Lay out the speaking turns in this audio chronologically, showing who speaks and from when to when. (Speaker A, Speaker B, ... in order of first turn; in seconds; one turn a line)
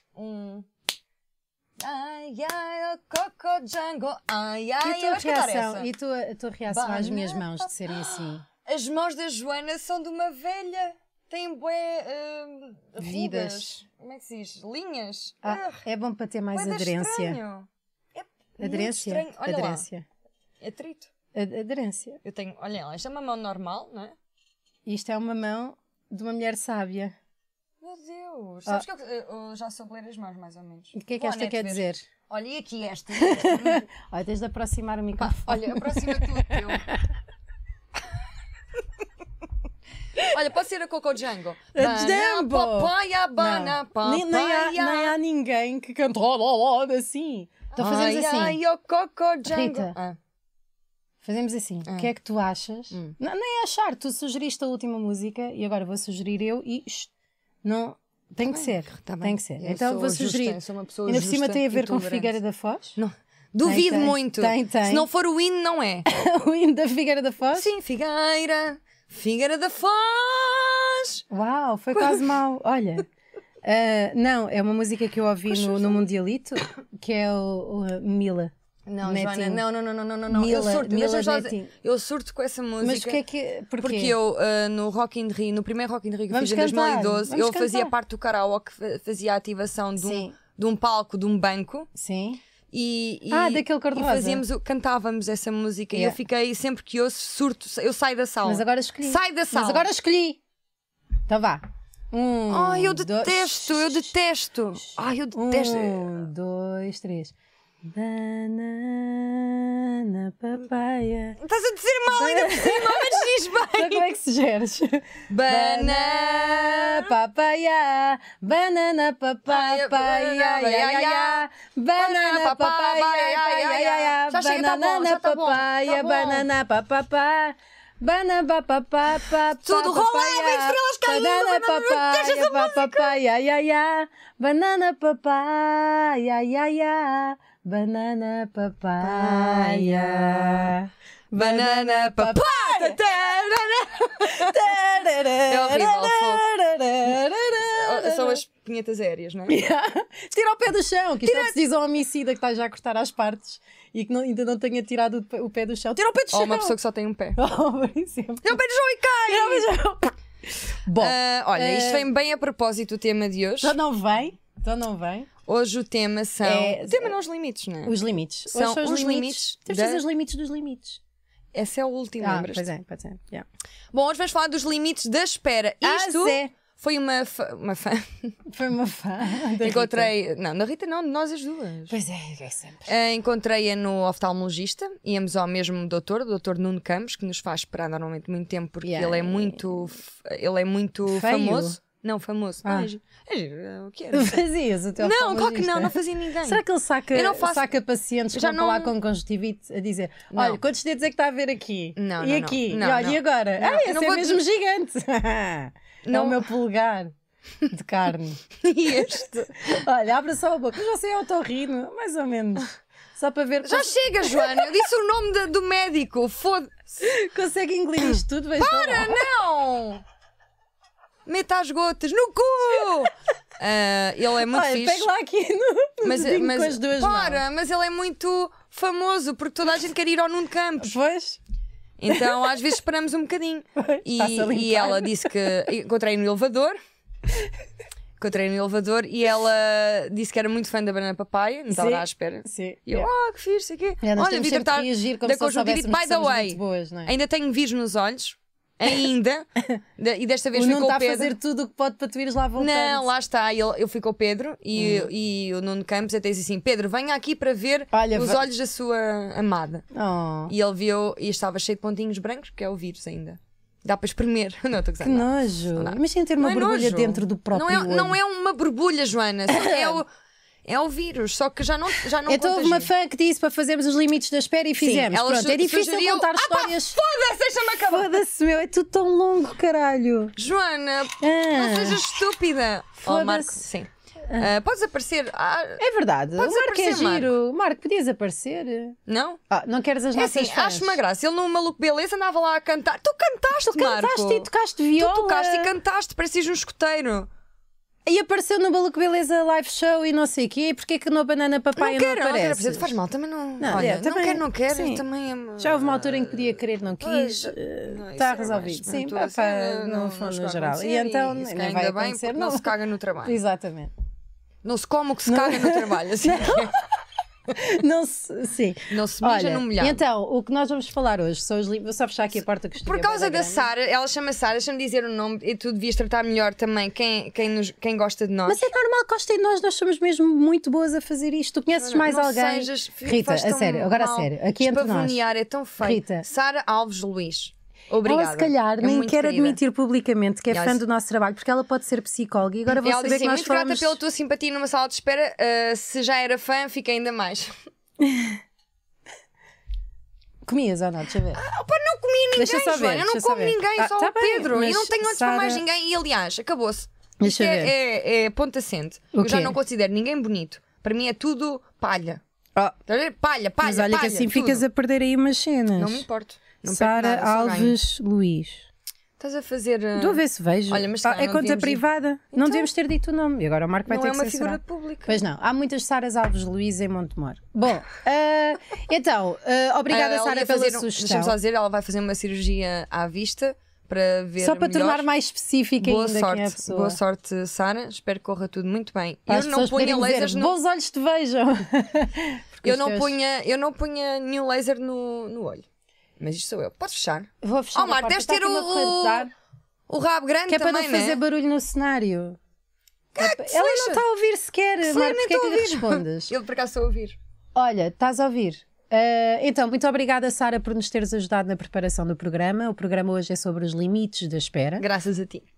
Speaker A: 0.1-0.7
Speaker A: 1.8-5.9
Speaker B: 4.8-8.4
Speaker A: 6.7-15.8
Speaker B: 13.0-13.8
Speaker B: 15.4-17.4
Speaker A: 16.5-19.9
Speaker B: 18.6-20.0
Speaker A: 20.6-21.1
Speaker B: 21.3-22.2
Speaker A: 22.2-24.1
Speaker B: 24.9-27.1
Speaker A: 27.8-33.9
Speaker B: 30.9-32.0
Speaker B: 33.2-36.7
Speaker A: 35.2-36.9
Speaker A: 40.2-45.2
Speaker B: 41.7-48.6
Speaker A: 47.7-50.2
Speaker B: 49.5-50.0
Speaker B: 51.2-57.1
Speaker A: 51.8-52.1
Speaker B: 57.6-63.0
Speaker A: 58.5-62.4
Speaker A: 63.0-66.1
Speaker B: 63.6-65.1
Speaker B: 66.1-67.7
Speaker A: 67.5-71.2
Speaker B: 71.3-73.1
Speaker A: 71.9-72.3
Speaker B: 73.6-78.5
Speaker A: 75.5-76.0
Speaker A: 78.9-83.2
Speaker B: 79.0-79.6
Speaker B: 80.3-81.7
Speaker B: 82.8-84.2
Speaker A: 83.8-91.9
Speaker B: 86.3-87.9
Speaker B: 90.0-90.4
Speaker B: 92.0-92.4
Speaker A: 92.7-99.9
Speaker B: 93.3-94.4
Speaker B: 95.9-96.2
Speaker B: 98.4-100.4
Speaker B: 101.3-104.1
Speaker A: 102.5-106.1
Speaker B: 105.3-111.4
Speaker A: 111.4-114.1
Speaker B: 112.1-143.4
Speaker A: 115.3-117.1
Speaker A: 119.5-121.5
Speaker A: 122.0-126.5
Speaker A: 129.6-133.1
Speaker A: 139.0-140.8
Speaker A: 141.3-144.6
Speaker B: 144.2-148.4
Speaker A: 145.5-146.4
Speaker A: 147.8-149.6
Speaker B: 149.5-156.8
Speaker A: 151.2-151.6
Speaker A: 156.3-157.4
Speaker B: 157.4-158.5
Speaker A: 158.4-159.7
Speaker B: 159.2-160.1
Speaker B: 160.8-162.1
Speaker A: 161.0-163.8
Speaker B: 163.6-165.3
Speaker A: 165.4-167.9
Speaker B: 166.4-167.2
Speaker B: 167.8-171.0
Speaker A: 168.5-170.0
Speaker A: 171.5-172.7
Speaker B: 172.2-173.4
Speaker A: 173.9-178.3
Speaker B: 175.8-176.5
Speaker B: 178.5-180.1
Speaker A: 179.6-181.9
Speaker B: 181.9-182.9
Speaker A: 182.8-194.4
Speaker B: 188.8-189.7
Speaker B: 191.1-191.8
Speaker B: 192.6-192.9
Speaker B: 194.1-207.1
Speaker A: 195.0-197.7
Speaker A: 198.3-198.9
Speaker A: 200.3-200.6
Speaker A: 201.9-204.4
Speaker A: 206.0-206.4
Speaker B: 207.7-208.4
Speaker A: 208.6-209.7
Speaker B: 209.0-214.7
Speaker A: 213.6-217.0
Speaker B: 217.0-219.2
Speaker A: 218.6-220.0
Speaker A: 221.2-225.1
Speaker B: 224.4-227.4
Speaker A: 226.0-230.9
Speaker B: 230.8-231.4
Speaker A: 232.0-236.8
Speaker B: 233.8-235.5
Speaker A: 238.2-249.5
Speaker B: 241.7-243.1
Speaker B: 244.0-247.1
Speaker A: 250.0-251.3
Speaker B: 250.5-253.1
Speaker A: 252.6-259.9
Speaker B: 254.8-255.1
Speaker B: 257.9-258.4
Speaker B: 259.9-260.5
Speaker A: 260.5-270.1
Speaker B: 265.0-268.2
Speaker B: 269.5-270.0
Speaker A: 270.7-272.9
Speaker B: 272.2-277.0
Speaker A: 274.8-278.1
Speaker B: 277.8-280.4
Speaker A: 280.4-285.8
Speaker B: 281.2-282.0
Speaker B: 283.0-283.6
Speaker B: 284.3-284.5
Speaker B: 285.8-289.0
Speaker A: 286.4-287.3
Speaker A: 289.1-289.4
Speaker B: 289.5-291.0
Speaker A: 290.2-297.3
Speaker B: 293.6-295.8
Speaker B: 298.1-303.0
Speaker A: 301.8-313.4
Speaker B: 303.6-305.0
Speaker B: 305.6-312.7
Speaker B: 313.2-313.9
Speaker A: 314.6-316.7
Speaker B: 315.2-317.0
Speaker B: 317.6-323.7
Speaker A: 318.9-320.0
Speaker A: 322.8-328.7
Speaker B: 328.5-335.2
Speaker A: 331.8-339.6
Speaker B: 335.8-336.2
Speaker B: 338.0-344.0
Speaker A: 340.5-340.8
Speaker A: 342.7-347.6
Speaker B: 348.0-348.4
Speaker B: 350.4-351.4
Speaker A: 351.3-362.2
Speaker B: 352.4-355.6
Speaker B: 357.2-357.7
Speaker B: 359.1-359.6
Speaker A: 362.9-364.6
Speaker B: 363.6-366.1
Speaker A: 365.8-367.8
Speaker B: 366.6-368.6
Speaker A: 369.2-372.7
Speaker B: 370.0-381.4
Speaker A: 373.9-375.2
Speaker A: 379.9-385.1
Speaker B: 384.4-387.0
Speaker A: 385.8-390.5
Speaker B: 389.3-393.2
Speaker A: 392.6-395.7
Speaker A: 396.2-399.3
Speaker B: 397.4-399.3
Speaker A: 399.9-401.2
Speaker B: 400.5-402.4
Speaker A: 403.1-404.0
Speaker B: 403.2-406.3
Speaker A: 404.8-407.2
Speaker B: 407.6-414.9
Speaker A: 414.8-415.4